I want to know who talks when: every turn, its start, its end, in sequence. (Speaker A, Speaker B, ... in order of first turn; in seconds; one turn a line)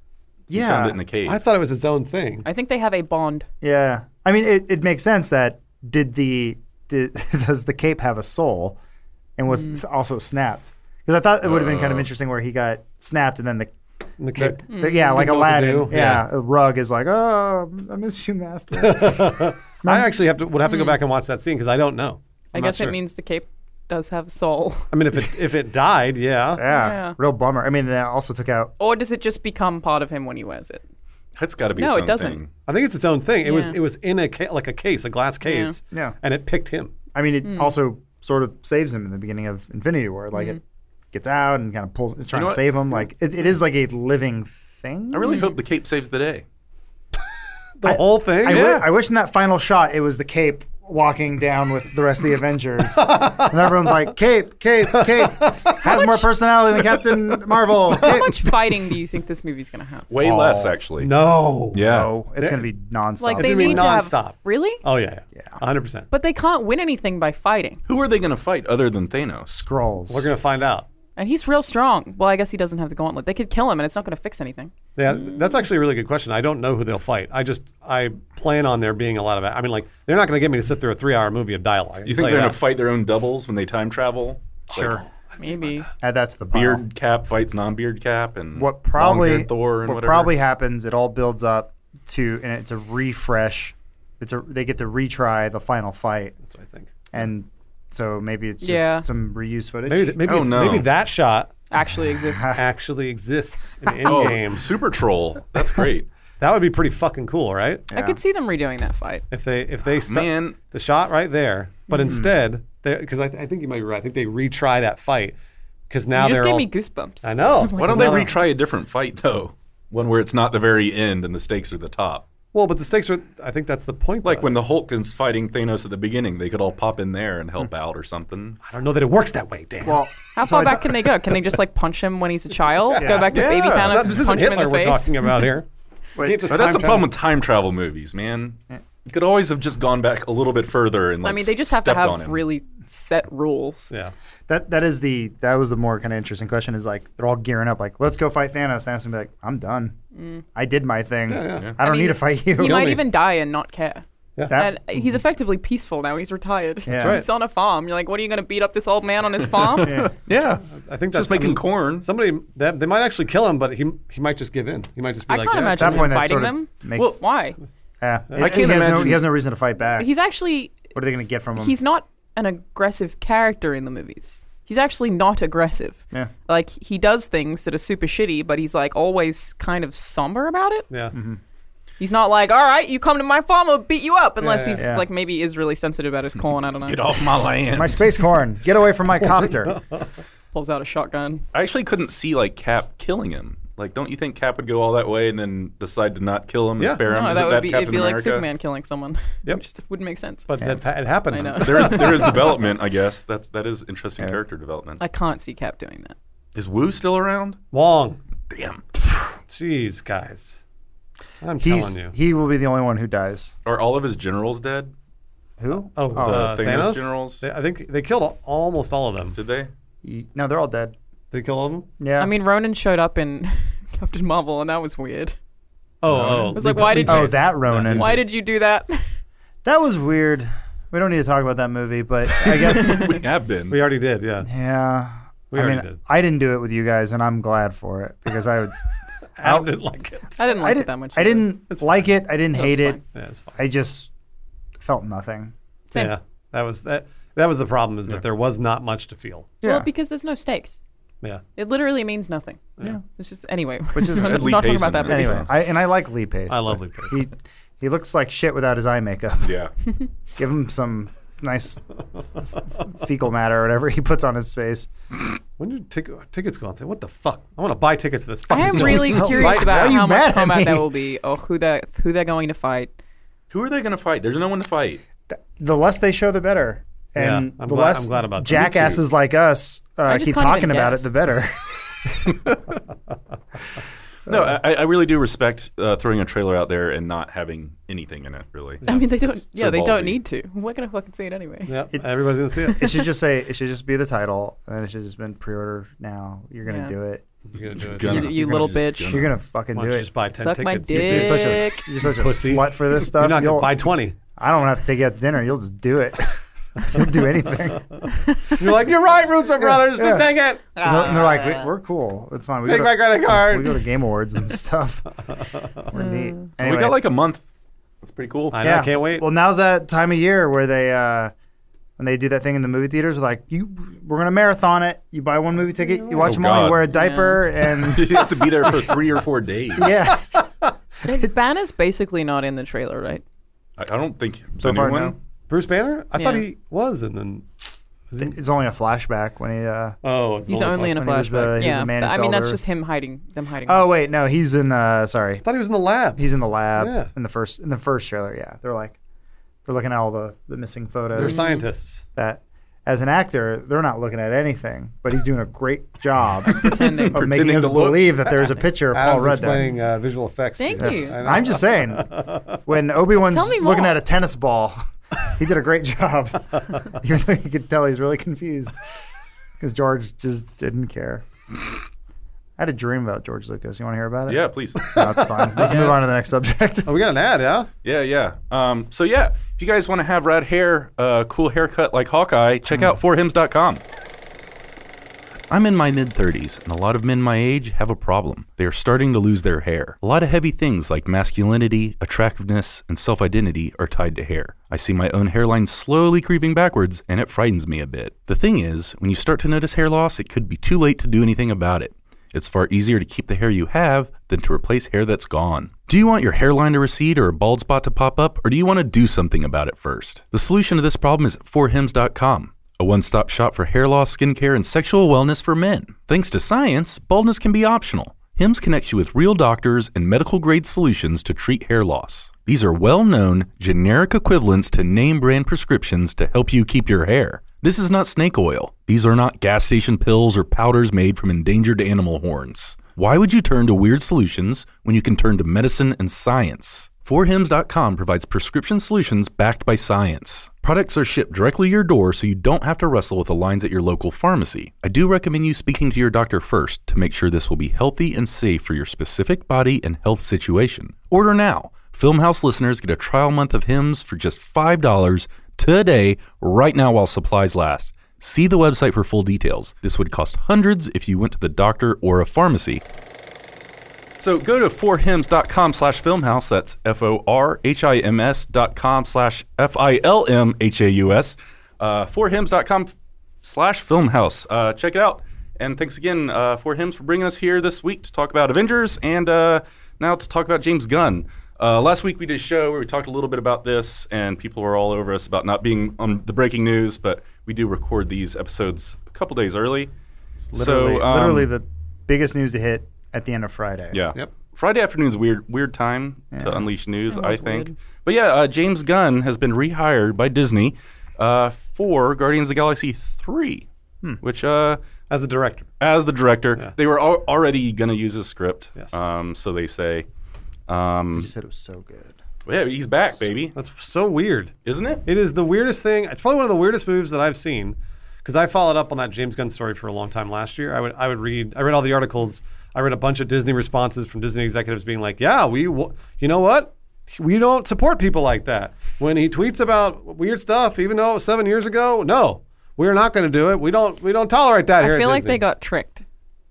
Speaker A: 0.5-1.0
Speaker B: 0.5-1.4
Speaker C: 1.2-2.5
Speaker D: 2.4-3.5
Speaker A: 3.6-8.8
Speaker A: 9.4-13.7
Speaker D: 9.5-9.8
Speaker B: 11.4-12.1
Speaker C: 14.2-16.3
Speaker A: 14.3-20.2
Speaker D: 14.7-15.3
Speaker C: 18.7-23.0
Speaker D: 20.6-21.0
Speaker D: 22.5-24.9
Speaker C: 24.9-26.6
Speaker A: 26.6-28.7
Speaker D: 26.7-27.1
Speaker D: 28.8-30.8
Speaker B: 31.4-32.5
Speaker D: 31.8-32.4
Speaker C: 32.7-36.9
Speaker D: 33.4-33.8
Speaker D: 35.4-35.7
Speaker A: 37.1-40.6
Speaker D: 37.4-37.7
Speaker A: 41.1-45.5
Speaker B: 42.3-42.6
Speaker B: 45.1-46.4
Speaker D: 45.2-45.5
Speaker C: 47.8-48.7
Speaker A: 47.8-58.5
Speaker B: 48.4-48.9
Speaker C: 52.9-53.9
Speaker C: 54.9-56.1
Speaker C: 56.9-57.3
Speaker D: 57.9-60.1
Speaker B: 60.1-61.1
Speaker A: 60.2-60.7
Speaker C: 61.0-61.8
Speaker B: 61.7-62.1
Speaker A: 61.8-64.0
Speaker C: 62.4-62.7
Speaker D: 63.2-64.8
Speaker C: 63.4-66.1
Speaker D: 66.1-67.8
Speaker B: 67.9-69.6
Speaker A: 69.5-70.3
Speaker C: 70.1-70.9
Speaker D: 71.2-74.7
Speaker C: 75.0-82.6
Speaker B: 82.0-85.0
Speaker A: 84.7-85.0
Speaker D: 85.4-85.9
Speaker A: 86.0-86.8
Speaker B: 86.5-90.3
Speaker A: 88.5-96.3
Speaker C: 96.4-96.9
Speaker A: 97.1-100.2
Speaker D: 98.6-99.1
Speaker C: 99.8-101.6
Speaker B: 100.2-100.9
Speaker D: 101.7-102.6
Speaker A: 102.3-102.6
Speaker C: 102.5-104.7
Speaker B: 104.0-106.1
Speaker C: 106.4-107.9
Speaker D: 107.9-109.2
Speaker A: 107.9-108.2
Speaker C: 109.3-115.3
Speaker B: 110.0-110.6
Speaker D: 111.9-112.2
Speaker C: 115.9-116.7
Speaker D: 116.1-118.4
Speaker C: 117.2-118.3
Speaker B: 117.8-122.3
Speaker C: 122.5-124.5
Speaker B: 124.2-128.6
Speaker C: 128.6-130.0
Speaker A: 129.8-130.9
Speaker D: 130.3-135.3
Speaker C: 132.8-137.1
Speaker A: 133.0-133.3
Speaker B: 133.3-134.3
Speaker A: 136.2-136.4
Speaker B: 136.5-142.4
Speaker D: 141.2-143.9
Speaker A: 144.5-149.9
Speaker D: 150.1-150.4
Speaker A: 150.5-153.0
Speaker C: 151.3-151.7
Speaker D: 151.8-160.0
Speaker C: 152.6-153.0
Speaker A: 154.5-154.8
Speaker A: 156.9-157.2
Speaker C: 156.9-157.3
Speaker B: 159.6-162.1
Speaker A: 159.8-160.1
Speaker C: 160.7-166.2
Speaker D: 165.3-167.6
Speaker A: 165.8-167.2
Speaker A: 168.0-170.1
Speaker C: 168.3-168.6
Speaker B: 168.4-169.3
Speaker D: 170.0-170.9
Speaker A: 170.9-171.7
Speaker D: 171.6-180.9
Speaker C: 180.9-181.1
Speaker A: 181.1-181.4
Speaker D: 182.0-187.1
Speaker C: 184.4-184.9
Speaker A: 184.8-185.0
Speaker B: 186.8-188.1
Speaker A: 187.7-189.8
Speaker C: 189.1-190.1
Speaker D: 190.5-191.4
Speaker B: 191.5-198.4
Speaker D: 197.1-200.5
Speaker C: 200.5-202.5
Speaker D: 201.3-202.5
Speaker B: 201.5-205.0
Speaker D: 205.0-206.2
Speaker B: 206.5-207.6
Speaker C: 207.7-208.2
Speaker B: 208.5-208.8
Speaker C: 209.5-210.6
Speaker C: 211.4-212.1
Speaker A: 211.6-213.5
Speaker B: 213.6-214.9
Speaker A: 215.6-216.6
Speaker C: 215.9-219.4
Speaker B: 216.1-217.4
Speaker B: 219.3-219.7
Speaker A: 220.0-220.9
Speaker C: 221.3-221.9
Speaker A: 222.0-222.3
Speaker D: 222.2-225.4
Speaker C: 226.0-228.3
Speaker B: 226.1-226.5
Speaker D: 226.5-229.0
Speaker A: 227.0-228.1
Speaker A: 229.6-233.2
Speaker B: 232.6-233.8
Speaker C: 233.7-234.5
Speaker A: 234.4-238.8
Speaker C: 235.5-236.0
Speaker C: 239.4-240.4
Speaker A: 239.4-239.7
Speaker D: 240.4-241.5
Speaker A: 240.5-243.0
Speaker C: 241.7-242.1
Speaker D: 242.5-243.0
Speaker C: 243.1-243.6
Speaker A: 243.6-244.1
Speaker A: 244.8-245.5
Speaker C: 245.9-249.5
Speaker A: 249.6-249.9
Speaker D: 249.6-250.8
Speaker D: 251.6-255.5
Speaker A: 253.9-259.5
Speaker B: 254.2-255.5
Speaker C: 256.5-257.2
Speaker B: 259.4-259.7
Speaker A: 260.4-264.9
Speaker C: 265.6-270.0
Speaker D: 268.5-272.9
Speaker A: 268.6-270.9
Speaker B: 273.5-275.0
Speaker A: 275.3-282.4
Speaker C: 277.2-279.0
Speaker D: 280.1-281.1
Speaker B: 284.2-290.2
Speaker D: 288.8-291.8
Speaker C: 291.7-292.8
Speaker D: 292.7-293.1
Speaker A: 292.7-297.2
Speaker D: 296.6-296.9
Speaker C: 297.5-298.4
Speaker B: 297.7-299.4
Speaker D: 298.0-299.2
Speaker A: 298.9-300.1
Speaker C: 299.7-304.2
Speaker D: 300.3-301.9
Speaker A: 300.9-303.8
Speaker A: 304.4-308.1
Speaker D: 308.1-308.6
Speaker C: 308.5-310.7
Speaker A: 309.6-317.0
Speaker D: 310.7-311.7
Speaker C: 312.6-313.8
Speaker D: 315.9-316.3
Speaker B: 316.6-317.4
Speaker B: 318.0-318.6
Speaker C: 318.5-319.2
Speaker A: 318.6-321.3
Speaker A: 322.0-328.9
Speaker C: 325.9-326.3
Speaker B: 326.2-326.9
Speaker D: 326.9-327.5
Speaker B: 327.8-330.0
Speaker A: 329.8-330.4
Speaker C: 330.4-330.7
Speaker D: 331.0-333.2
Speaker B: 333.8-335.1
Speaker A: 334.6-335.1
Speaker C: 335.5-337.5
Speaker D: 336.1-336.4
Speaker C: 338.1-338.4
Speaker A: 338.2-340.0
Speaker C: 340.0-341.1
Speaker D: 340.5-343.9
Speaker A: 340.9-342.6
Speaker A: 343.6-345.4
Speaker C: 345.4-347.1
Speaker A: 346.2-349.0
Speaker A: 349.6-351.5
Speaker C: 351.1-352.0
Speaker D: 351.2-351.6
Speaker A: 352.1-359.7
Speaker B: 356.5-358.5
Speaker D: 356.5-357.2
Speaker C: 358.9-362.5
Speaker D: 360.6-361.2
Speaker A: 360.8-368.8
Speaker D: 363.2-364.0
Speaker A: 369.6-371.2
Speaker A: 372.6-376.9
Speaker B: 374.3-375.0
Speaker D: 375.5-376.1
Speaker C: 376.8-377.7
Speaker B: 377.8-383.8
Speaker B: 385.5-462.8
Speaker B: 464.2-489.9
Speaker B: 490.5-491.5
Speaker A: 490.5-494.0
Speaker B: 493.9-503.7
Speaker A: 496.3-496.7
Speaker D: 497.1-497.7
Speaker B: 504.2-504.8
Speaker C: 505.1-505.7
Speaker B: 505.8-510.1
Speaker B: 510.7-511.3
Speaker A: 511.1-512.2
Speaker B: 512.4-513.5
Speaker C: 513.5-514.5
Speaker B: 514.6-515.0
Speaker C: 515.0-535.4
Speaker D: 534.8-536.0